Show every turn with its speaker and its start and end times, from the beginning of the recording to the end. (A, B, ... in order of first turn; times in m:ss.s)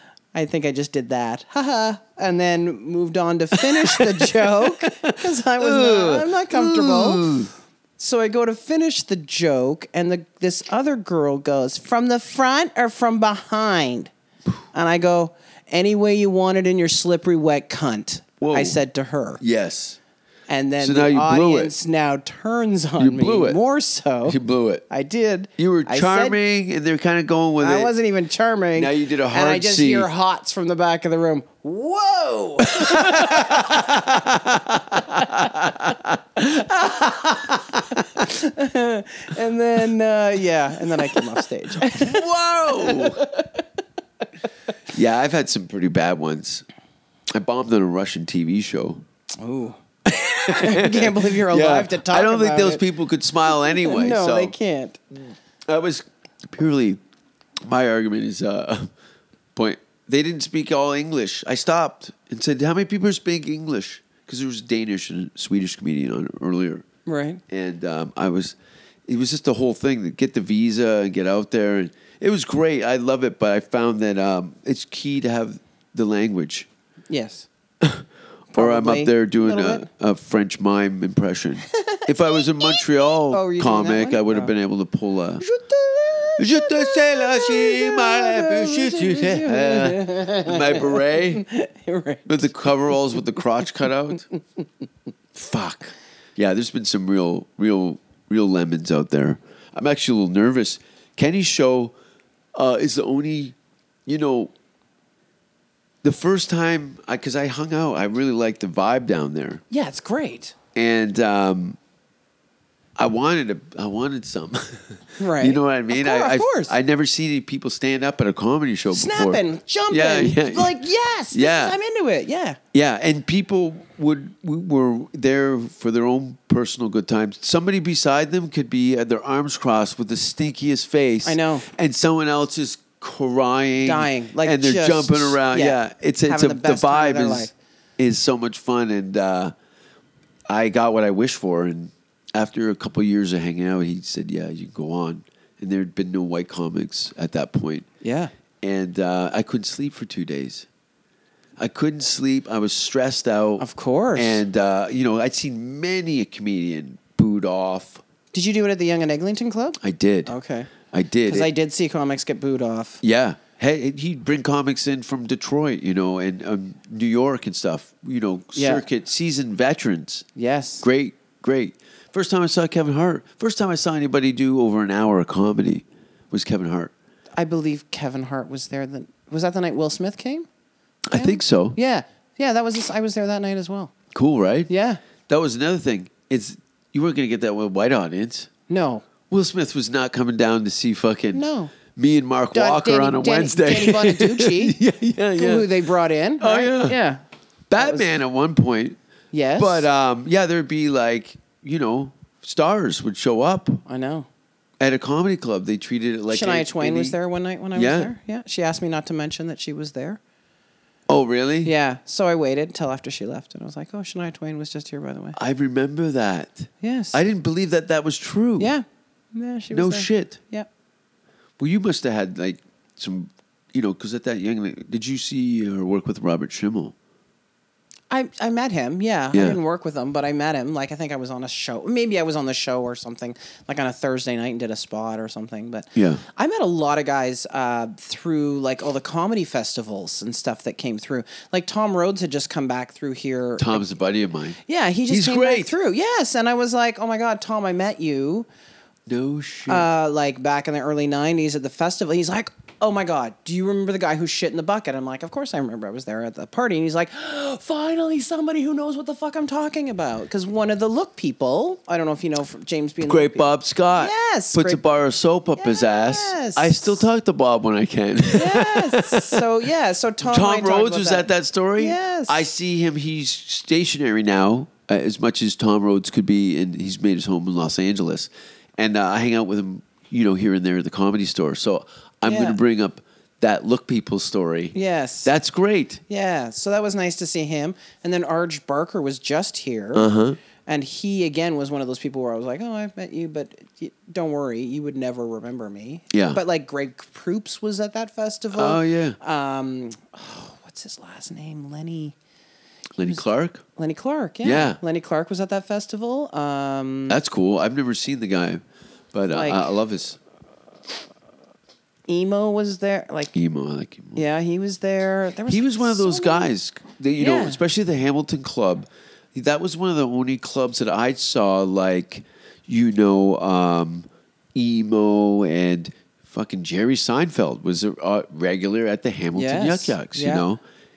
0:00.3-0:07.3 A
0:03.6-0:07.5 B
0:08.0-0:14.1 A
0:14.7-0:19.4 A
0:18.4-0:18.8 B
0:19.4-0:20.0 B
0:20.5-0:24.4 A
0:20.8-0:21.7 B
0:23.0-0:23.6 B
0:24.2-0:24.8 B
0:24.9-0:26.4 A
0:25.6-0:27.9 B
0:27.6-0:34.1 A
0:28.7-0:30.1 B
0:32.6-0:38.2 B
0:35.0-0:35.6 A
0:36.5-0:43.6 A
0:41.8-0:43.2 B
0:44.9-0:46.6 B
0:47.3-0:49.0 B
0:49.4-0:49.8 A
0:50.0-0:54.5 B
0:50.4-0:52.8 A
0:53.5-0:55.0 A
0:55.7-0:57.0 B
0:57.6-0:58.9 B
0:59.5-1:06.8 B
1:07.0-1:07.4 A
1:07.5-1:08.6 B
1:09.1-1:16.7 B
1:17.1-1:17.5 A
1:17.8-1:25.4 B
1:18.5-1:19.8 A
1:21.7-1:24.5 A
1:25.4-1:32.9 A
1:26.4-1:31.4 B
1:32.3-1:34.2 B
1:35.3-1:41.9 B
1:42.5-1:44.5 B
1:46.0-1:49.6 B
1:49.7-1:50.5 A
1:50.7-1:51.8 B
1:53.0-2:01.8 B
1:55.2-1:56.7 A
1:58.9-2:02.6 A
2:02.7-2:19.5 B
2:11.2-2:11.7 A
2:13.8-2:17.5 A
2:20.5-2:27.8 B
2:28.0-2:28.3 A
2:28.6-2:30.7 B
2:31.6-2:38.0 B
2:33.6-2:34.4 A
2:38.3-2:40.7 A
2:39.8-2:41.5 B
2:41.2-2:43.0 A
2:43.0-2:50.2 B
2:48.5-2:48.8 A
2:50.4-2:50.8 A
2:50.8-2:56.9 B
2:57.4-3:00.5 A
3:01.1-3:01.8 B
3:01.1-3:03.9 A
3:04.1-3:04.7 B
3:04.7-3:05.0 A
3:05.3-3:08.5 B
3:08.7-3:09.0 A
3:09.3-3:15.7 B
3:11.3-3:11.7 A
3:12.5-3:14.8 A
3:15.4-3:17.2 A
3:16.4-3:17.0 B
3:17.7-3:19.0 B
3:17.8-3:18.1 A
3:19.3-3:19.9 A
3:19.6-3:23.8 B
3:23.8-3:24.3 A
3:24.8-3:27.2 B
3:26.3-3:30.2 A
3:27.7-3:28.1 B
3:31.1-3:31.7 B
3:31.6-3:35.4 A
3:35.4-3:38.7 B
3:36.8-3:37.2 A
3:38.6-3:40.7 A
3:39.7-3:40.4 B
3:41.6-3:46.9 B
3:48.1-4:03.8 A
3:49.3-3:49.6 B
3:55.9-3:56.2 B
4:03.6-4:05.7 B
4:04.6-4:08.5 A
4:09.1-4:09.9 B
4:09.7-4:24.8 A
4:23.0-4:29.4 B
4:25.6-4:27.0 A
4:28.3-4:32.4 A
4:30.2-4:46.0 B
4:42.2-4:42.6 A
4:44.7-4:45.3 A
4:46.1-4:50.1 A
4:49.9-4:50.4 B
4:50.6-5:02.1 A
4:56.1-4:56.4 B
4:58.5-4:59.2 B
5:03.0-5:03.6 B
5:03.8-5:07.2 A
5:04.4-5:04.8 B
5:07.1-5:10.2 B
5:09.3-5:09.7 A
5:12.1-5:13.3 A
5:13.3-5:14.2 B
5:14.1-5:16.5 A
5:15.5-5:30.6 B
5:17.2-5:17.6 A
5:29.3-5:30.4 A